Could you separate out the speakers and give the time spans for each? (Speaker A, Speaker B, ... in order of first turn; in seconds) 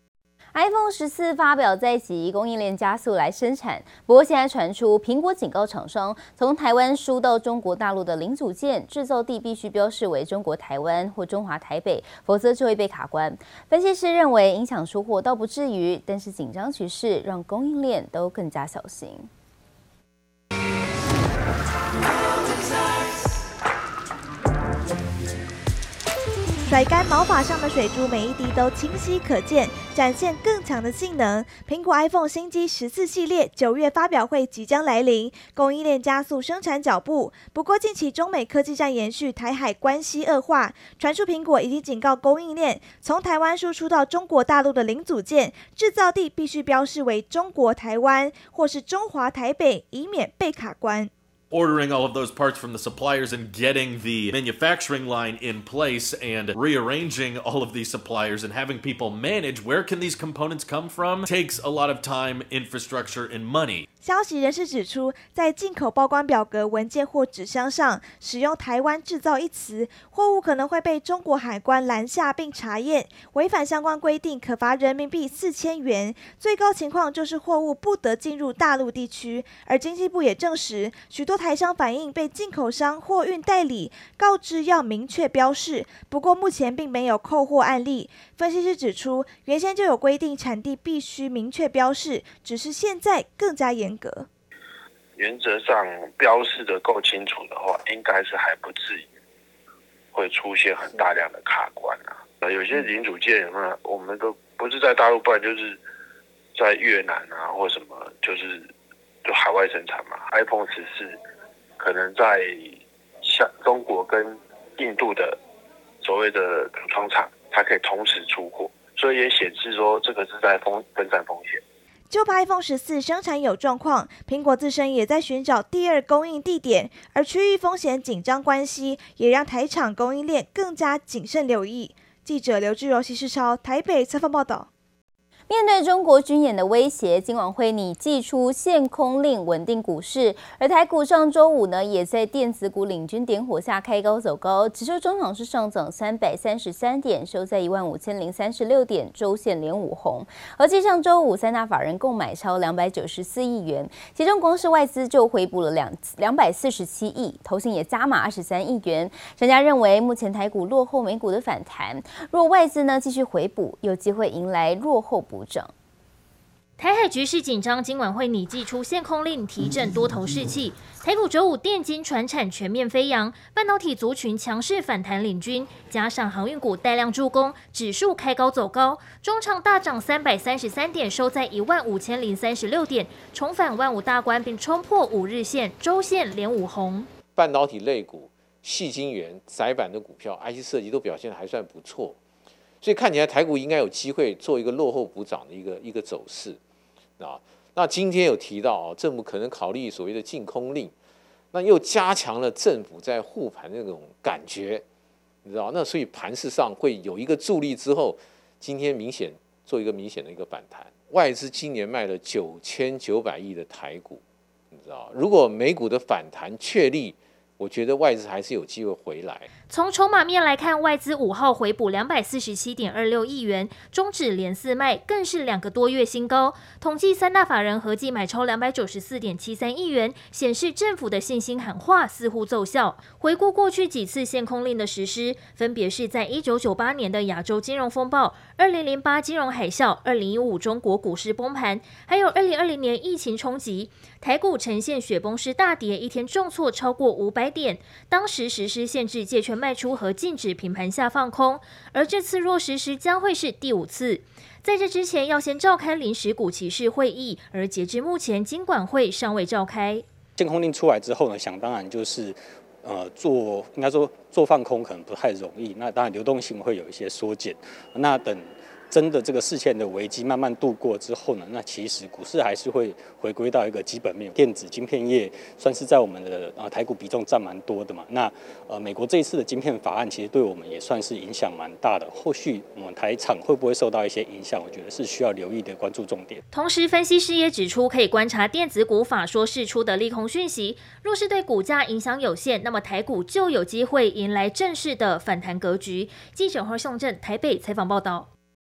Speaker A: 0.5-19.3, 135.5-165.7
Speaker B: 26.6-51.1, 64.0-94.3, 122.1-134.7
Speaker C: 51.5-63.8
Speaker D: 95.2-99.1, 100.1-105.8, 106.5-108.7, 109.2-111.2, 111.8-115.4, 116.0-121.6
Speaker E: 166.8-187.1, 219.7-260.0, 286.5-298.3
Speaker F: 187.3-192.2, 192.8-196.6, 197.2-200.9, 201.5-204.8, 205.4-214.2, 214.7-219.5
Speaker G: 260.4-286.4